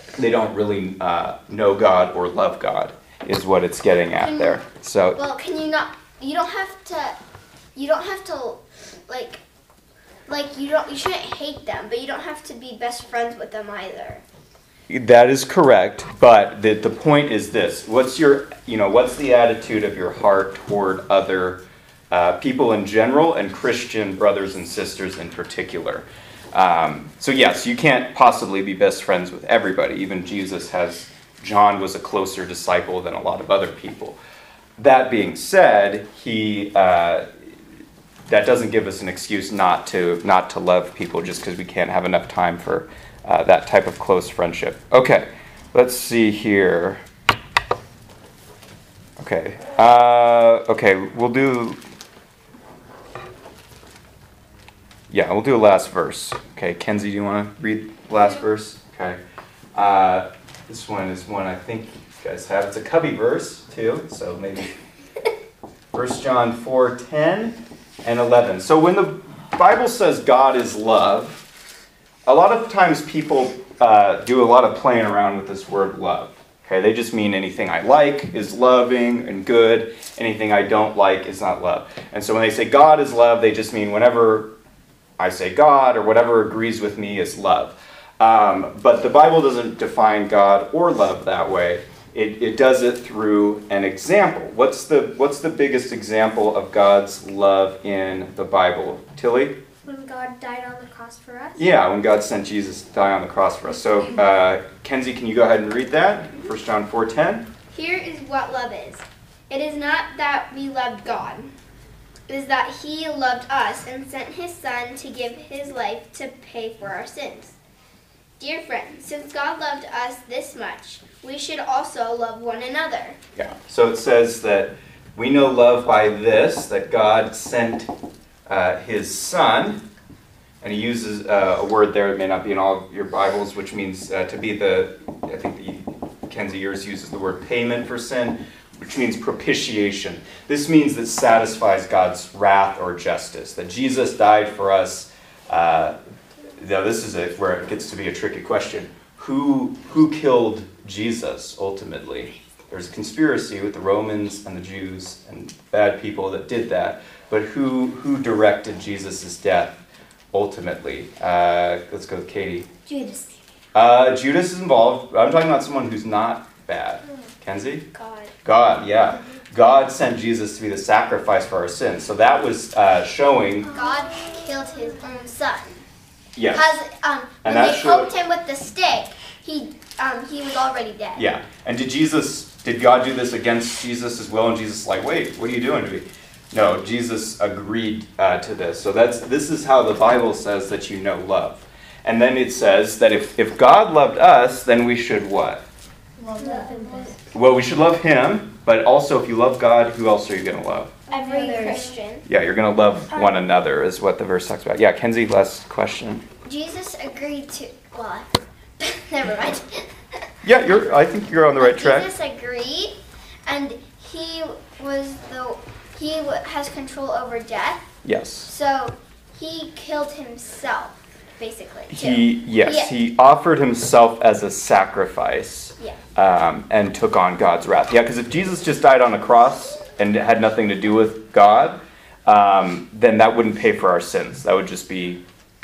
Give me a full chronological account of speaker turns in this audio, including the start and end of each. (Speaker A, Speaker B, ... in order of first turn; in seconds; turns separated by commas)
Speaker A: 0.2-5.2, Speaker B: 4.1-4.6, Speaker B: 5.2-7.2, Speaker B: 7.7-9.4, Speaker B: 10.3-14.2, Speaker A: 14.9-34.2, Speaker A: 34.8-37.3, Speaker A: 38.3-47.0, Speaker A: 49.2-51.8, Speaker A: 55.1-59.2, Speaker A: 59.7-64.7, Speaker A: 65.9-71.4, Speaker A: 72.2-84.5, Speaker A: 85.2-99.6, Speaker C: 99.8-101.7, Speaker A: 101.5-107.5, Speaker B: 107.7-111.5, Speaker B: 112.3-117.5, Speaker B: 118.4-123.2, Speaker A: 123.3-127.9, Speaker A: 128.5-129.9, Speaker A: 130.6-146.0, Speaker A: 146.6-162.7, Speaker C: 162.9-163.4, Speaker A: 163.7-167.8, Speaker B: 167.9-168.3, Speaker A: 168.4-173.7, Speaker B: 173.7-175.8, Speaker A: 176.3-176.8, Speaker B: 176.5-181.2, Speaker A: 177.4-178.1, Speaker A: 181.1-195.7, Speaker C: 196.2-197.2, Speaker A: 197.3-201.0, Speaker C: 201.1-201.9, Speaker B: 201.1-202.2, Speaker A: 202.2-206.2, Speaker B: 203.1-203.4, Speaker B: 206.4-210.2, Speaker A: 210.4-212.1, Speaker B: 211.6-217.9, Speaker A: 218.0-218.5, Speaker B: 218.5-222.9, Speaker A: 221.9-235.2